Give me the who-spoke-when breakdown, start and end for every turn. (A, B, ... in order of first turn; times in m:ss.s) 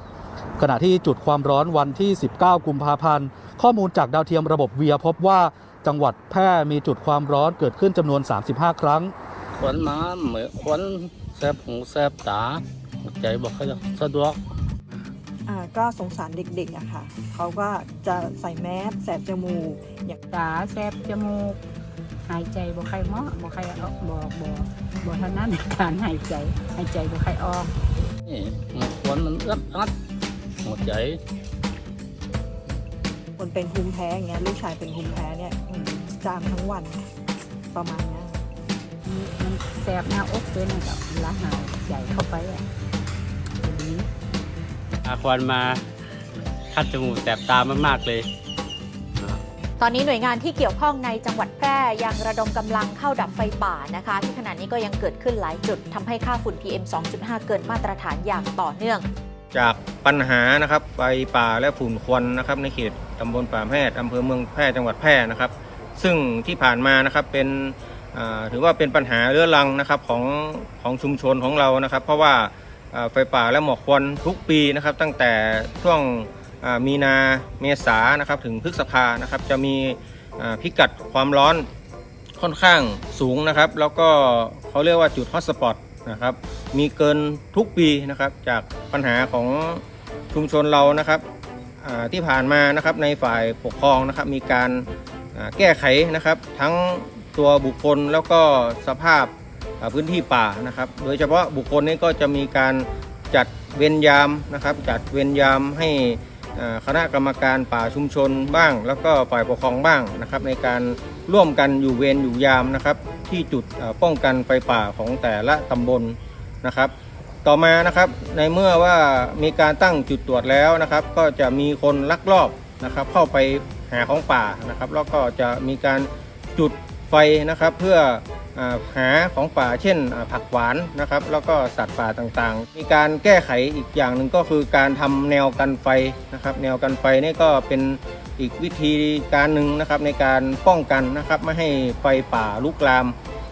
0:00.6-0:09.1 A
0:09.6-0:14.4 B
0:15.5-0:20.2 C
0:20.3-0:21.6 D
0:22.3-0:27.7 D
0:28.3-0:29.9 B
0:30.6-0:31.2 B
0:33.4-0:37.1 C
0:37.7-0:38.4 C
0:39.0-0:42.6 D
0:43.6-0:44.1 D
0:45.0-0:45.8 E
0:46.7-0:48.3 E
0:49.8-0:59.1 F
0:59.5-1:21.7 G
1:22.4-1:31.2 G
1:31.8-1:56.9 G
1:57.4-2:23.2 G